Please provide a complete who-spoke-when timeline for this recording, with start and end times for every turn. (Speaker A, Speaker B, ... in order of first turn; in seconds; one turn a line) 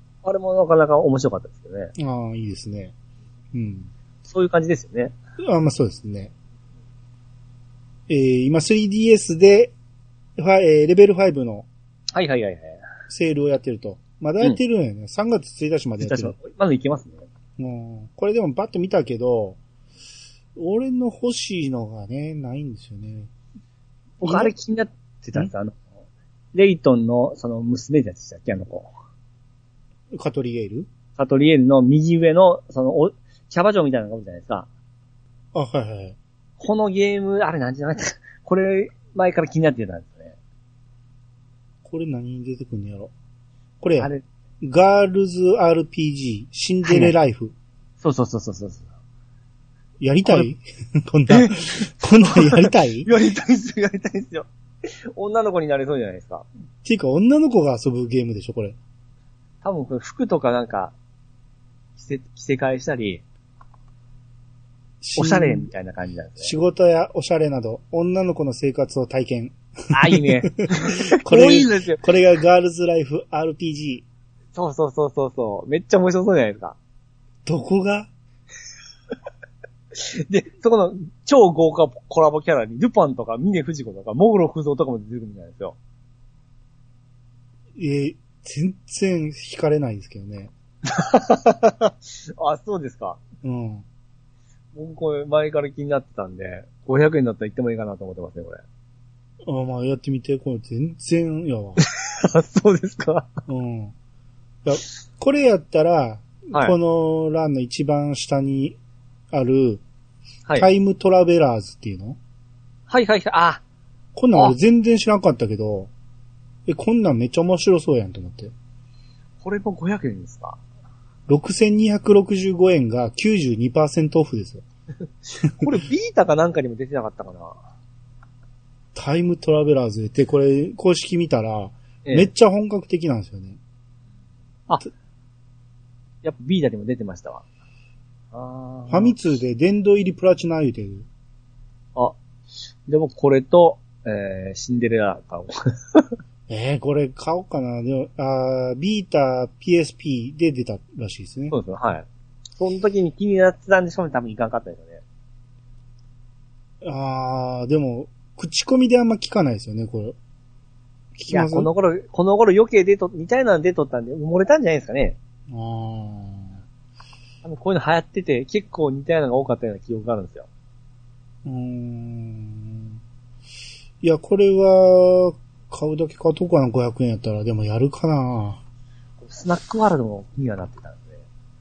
Speaker A: 0.2-1.9
Speaker B: 2.0-2.9
Speaker B: 3.5-3.9
Speaker A: 4.2-5.2
Speaker B: 5.4-6.3
Speaker B: 8.1-9.7
Speaker B: 10.4-11.7
Speaker A: 12.1-12.8
Speaker B: 13.1-16.4
Speaker A: 16.0-17.2
Speaker B: 17.6-19.6
Speaker B: 20.6-23.3
Speaker B: 24.2-24.5
Speaker A: 24.2-25.9
Speaker A: 26.5-28.9
Speaker B: 30.1-30.9
Speaker A: 31.2-34.7
Speaker B: 35.5-36.2
Speaker A: 36.6-40.4
Speaker B: 41.9-43.1
Speaker B: 43.8-47.5
Speaker A: 46.8-47.1
Speaker A: 48.0-48.9
Speaker B: 50.0-53.1
Speaker A: 51.3-56.5
Speaker B: 56.8-58.8
Speaker A: 59.6-60.9
Speaker A: 62.0-63.2
Speaker B: 65.0-65.7
Speaker A: 65.2-66.5
Speaker B: 66.4-74.1
Speaker A: 69.9-72.0
Speaker A: 74.5-76.8
Speaker B: 77.5-78.1
Speaker A: 79.9-85.8
Speaker B: 87.8-90.5
Speaker A: 90.9-93.2
Speaker B: 93.4-93.9
Speaker A: 94.7-98.6
Speaker B: 99.4-101.8
Speaker A: 101.8-103.3
Speaker B: 103.5-103.9
Speaker B: 104.7-108.8
Speaker B: 109.3-109.8
Speaker B: 110.5-112.2
Speaker A: 112.9-113.6
Speaker B: 114.2-115.9
Speaker B: 116.7-118.5
Speaker A: 119.4-120.6
Speaker B: 121.3-124.6
Speaker B: 125.4-125.7
Speaker A: 125.6-127.6
Speaker B: 128.9-133.6
Speaker A: 136.2-137.4
Speaker A: 138.3-139.2
Speaker B: 138.9-141.1
Speaker A: 142.9-146.1
Speaker B: 146.5-151.6
Speaker A: 151.5-152.1
Speaker A: 152.6-155.0
Speaker B: 156.8-160.2
Speaker B: 161.2-161.7
Speaker A: 161.3-165.2
Speaker B: 165.5-166.6
Speaker A: 167.4-170.5
Speaker B: 171.4-172.9
Speaker B: 174.0-178.6
Speaker A: 179.2-181.2